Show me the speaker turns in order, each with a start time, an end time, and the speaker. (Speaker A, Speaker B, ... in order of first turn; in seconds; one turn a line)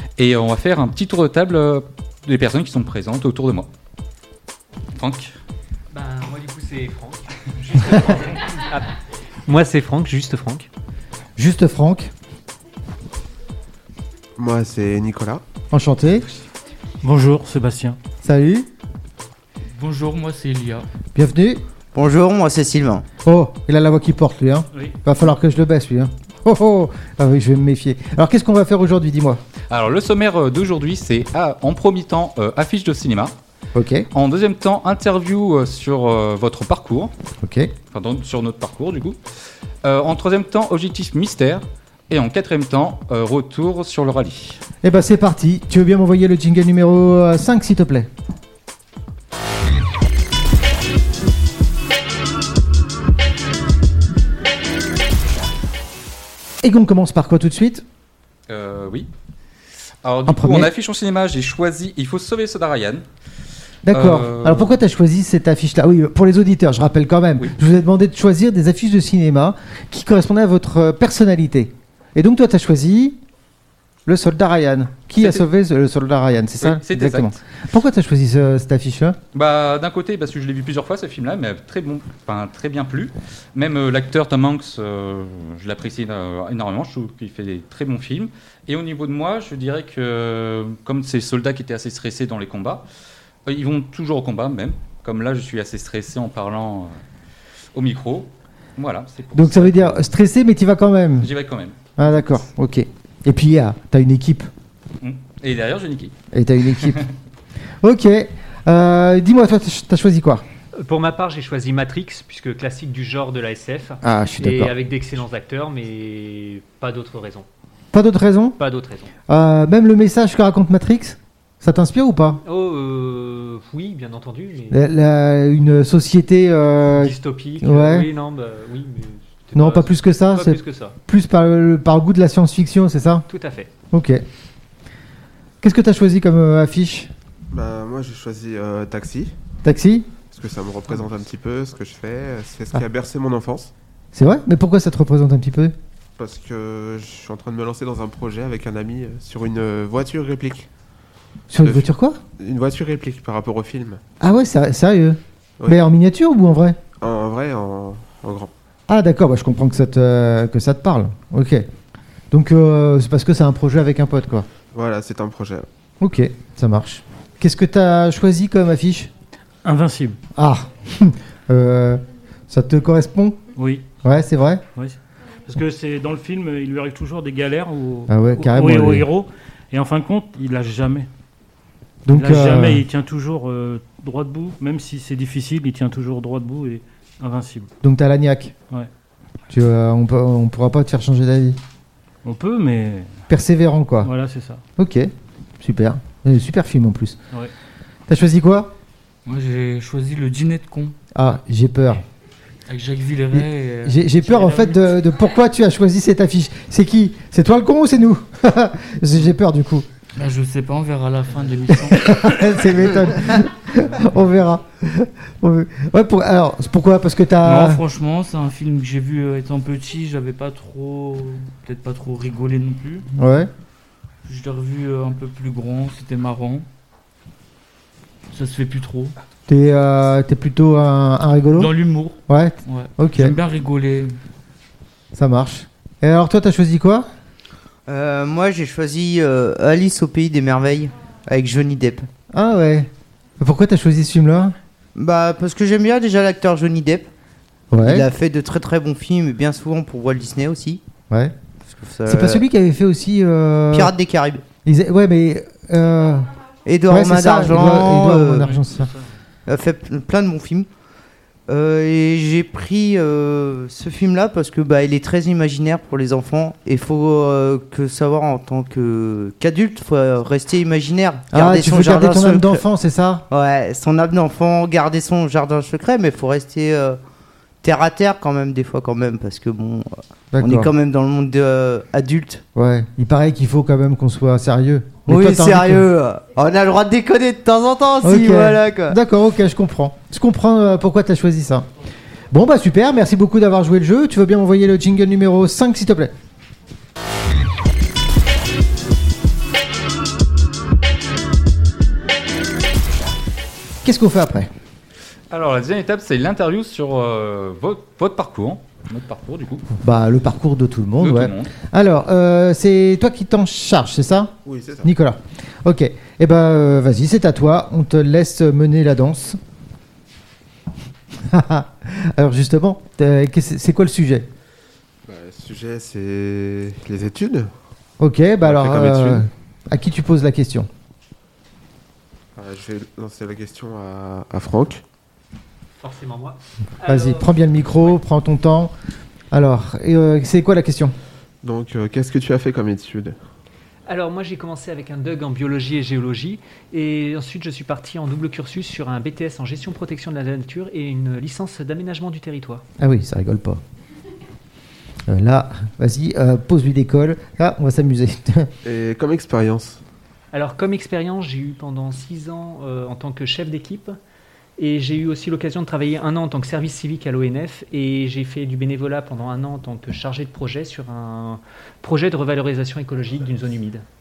Speaker A: 0.2-3.7
Speaker A: 4.9-5.3
Speaker B: 5.9-10.7
Speaker C: 11.4-12.1
Speaker D: 14.4-15.4
Speaker C: 15.7-16.2
Speaker E: 17.0-18.0
Speaker C: 18.2-18.7
Speaker F: 19.7-20.9
Speaker C: 21.1-21.6
Speaker G: 21.9-23.1
Speaker C: 23.2-29.4
Speaker A: 29.7-33.3
Speaker C: 33.7-34.1
Speaker A: 34.1-37.1
Speaker C: 37.4-37.7
Speaker A: 37.9-39.2
Speaker A: 39.8-44.6
Speaker C: 44.8-48.1
Speaker C: 56.6-57.8
Speaker A: 58.5-59.1
Speaker A: 60.0-63.0
Speaker C: 60.3-60.7
Speaker C: 63.8-73.2
Speaker A: 63.9-64.8
Speaker C: 74.0-79.2
Speaker A: 75.2-75.4
Speaker A: 76.6-77.4
Speaker A: 79.3-92.8
Speaker A: 93.5-97.0
Speaker A: 97.7-100.1
Speaker C: 99.3-101.3
Speaker A: 101.2-102.1
Speaker C: 102.0-104.5
Speaker A: 105.0-106.1
Speaker C: 106.3-107.0
Speaker C: 107.8-110.5
Speaker B: 110.8-117.5
Speaker C: 114.0-114.7
Speaker C: 117.9-118.6
Speaker B: 118.6-119.1
Speaker C: 119.3-122.4
Speaker B: 122.4-124.8
Speaker C: 124.7-128.1
Speaker B: 126.9-130.9
Speaker C: 129.5-133.3
Speaker B: 133.3-133.7
Speaker C: 133.9-134.2
Speaker C: 135.6-137.1
Speaker D: 137.5-139.3
Speaker C: 139.6-140.1
Speaker D: 140.3-143.7
Speaker C: 144.1-145.7
Speaker D: 146.2-150.7
Speaker C: 151.5-152.2
Speaker D: 152.4-154.0
Speaker C: 154.2-156.8
Speaker D: 157.0-158.5
Speaker C: 158.9-161.7
Speaker C: 162.3-164.5
Speaker D: 164.7-165.7
Speaker C: 166.0-169.1
Speaker E: 169.6-170.2
Speaker C: 170.3-173.4
Speaker E: 173.6-173.9
Speaker C: 174.0-174.6
Speaker E: 174.7-181.1
Speaker C: 178.1-179.1
Speaker C: 182.1-182.8
Speaker E: 182.1-187.7
Speaker C: 187.8-188.5
Speaker C: 189.5-191.6
Speaker E: 192.2-193.2
Speaker C: 193.3-194.1
Speaker E: 194.0-194.6
Speaker C: 194.8-197.2
Speaker C: 198.1-198.7
Speaker F: 199.2-201.0
Speaker C: 201.1-202.0
Speaker F: 202.7-204.9
Speaker C: 203.3-209.8
Speaker F: 210.2-212.1
Speaker C: 211.8-217.8
Speaker F: 217.4-223.1
Speaker C: 223.1-223.5
Speaker F: 224.2-226.7
Speaker F: 228.3-229.1
Speaker C: 229.5-231.7
Speaker F: 231.5-234.2
Speaker C: 232.3-233.3
Speaker C: 235.1-237.1
Speaker G: 237.9-242.1
Speaker C: 242.3-244.6
Speaker G: 244.9-247.1
Speaker C: 247.7-248.1
Speaker G: 247.8-250.8
Speaker C: 251.1-251.3
Speaker G: 251.7-252.4
Speaker C: 252.0-253.9
Speaker G: 253.7-254.4
Speaker C: 254.6-258.9
Speaker G: 256.6-258.5
Speaker E: 258.7-259.1
Speaker G: 259.4-260.7
Speaker G: 261.5-272.6
Speaker C: 271.3-273.2
Speaker G: 273.3-277.0
Speaker G: 277.6-282.4
Speaker C: 280.3-280.7
Speaker C: 282.5-285.9
Speaker G: 285.1-289.0
Speaker C: 288.0-291.7
Speaker C: 292.3-296.1
Speaker C: 303.8-304.5
Speaker A: 305.3-309.7
Speaker C: 309.8-319.4
Speaker A: 311.0-311.5
Speaker D: 314.4-314.9
Speaker C: 321.2-324.3
Speaker D: 325.1-327.5
Speaker C: 328.0-330.7
Speaker D: 328.4-329.2
Speaker D: 332.4-334.8
Speaker B: 335.8-337.4
Speaker C: 336.8-338.7
Speaker C: 339.3-340.9
Speaker D: 341.4-343.1
Speaker B: 343.9-352.6
Speaker C: 352.8-353.6
Speaker C: 355.1-358.5
Speaker D: 358.6-359.8
Speaker B: 360.3-364.0
Speaker B: 364.6-373.8